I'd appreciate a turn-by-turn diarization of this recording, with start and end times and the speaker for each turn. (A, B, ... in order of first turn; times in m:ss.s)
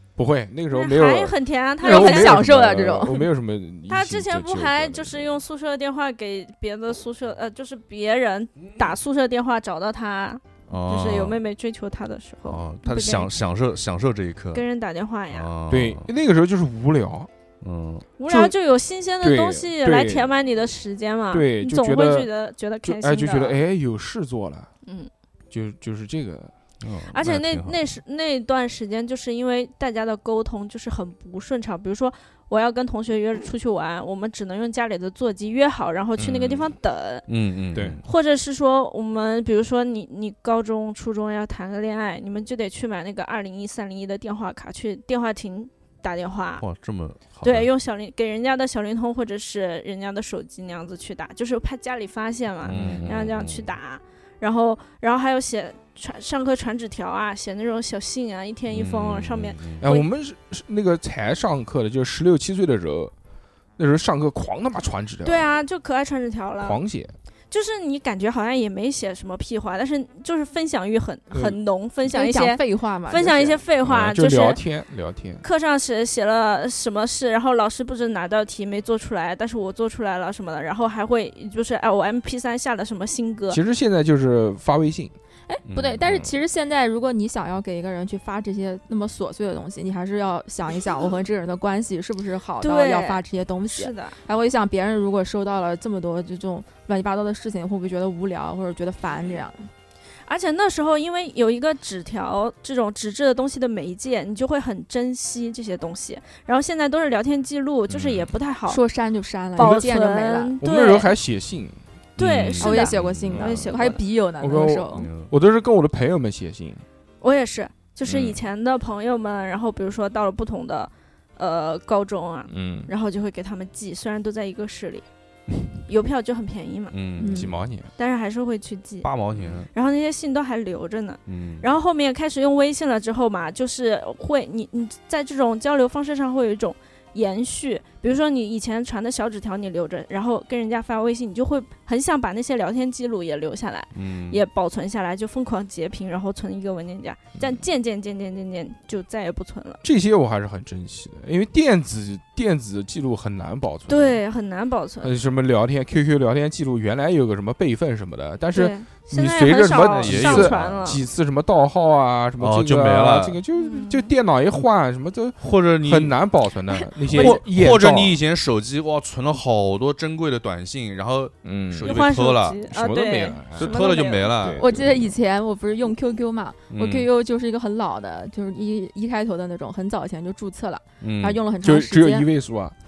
0:00.2-0:05.4 A
0:00.7-0:02.4 B
0:01.8-0:03.2 C
0:03.9-0:13.3 B
0:10.7-0:11.4 D
0:12.5-0:14.6 D
0:14.5-0:15.5 B
0:15.3-0:16.1 D
0:15.7-0:17.3 A
0:17.6-0:18.1 D
0:18.2-0:23.6 B
0:18.3-0:18.5 A
0:19.2-0:20.3 A
0:21.3-0:22.3 A
0:22.8-0:24.7 A
0:24.8-0:25.1 B
0:25.5-0:26.5 A
0:26.8-0:27.8 D
0:27.1-0:37.5 B
0:36.2-0:36.7 A
0:37.3-0:38.0 D
0:37.8-0:38.0 A
0:38.0-0:46.7 B
0:46.6-0:47.7 D
0:47.4-1:00.1 B
0:52.6-0:53.7 D
0:58.7-0:59.9 D
0:59.8-1:03.1 A
1:03.8-1:05.5 A
1:05.2-1:06.8 B
1:06.6-1:07.1 A
1:07.5-1:14.6 B
1:11.3-1:11.6 A
1:12.1-1:13.6 C
1:13.8-1:15.4 A
1:15.4-1:23.6 B
1:23.5-1:25.1 A
1:25.5-1:39.7 C
1:25.7-1:26.1 D
1:32.6-1:34.2 B
1:40.2-1:48.8 B
1:47.9-1:48.3 D
1:48.7-1:50.6 C
1:49.6-1:51.1 B
1:49.6-1:49.9 A
1:50.6-1:51.8 A
1:52.2-1:53.5 D
1:52.2-1:54.0 B
1:52.6-1:55.1 C
1:54.4-1:56.8 A
1:54.9-1:55.3 D
1:57.2-2:05.0 B
1:58.1-1:58.4 D
2:02.5-2:02.9 A
2:05.9-2:07.0 B
2:06.9-2:07.5 D
2:07.2-2:07.5 C
2:07.3-2:07.9 A
2:08.0-2:29.8 B
2:09.0-2:09.7 D
2:11.3-2:11.7 D
2:23.9-2:24.4 D
2:29.8-2:34.2 A
2:33.9-2:35.1 B
2:35.0-2:48.2 A
2:38.5-2:41.0 B
2:39.8-2:41.0 D
2:42.4-2:43.4 D
2:43.5-2:44.1 B
2:45.4-2:46.2 D
2:47.0-2:52.7 D
2:47.1-2:47.4 B
2:51.4-2:52.0 A
2:51.8-2:54.4 B
2:52.7-2:53.8 A
2:53.6-2:54.7 D
2:54.4-2:55.0 A
2:54.6-3:02.3 C
2:56.7-2:57.1 D
3:01.0-3:01.4 D
3:01.6-3:02.8 A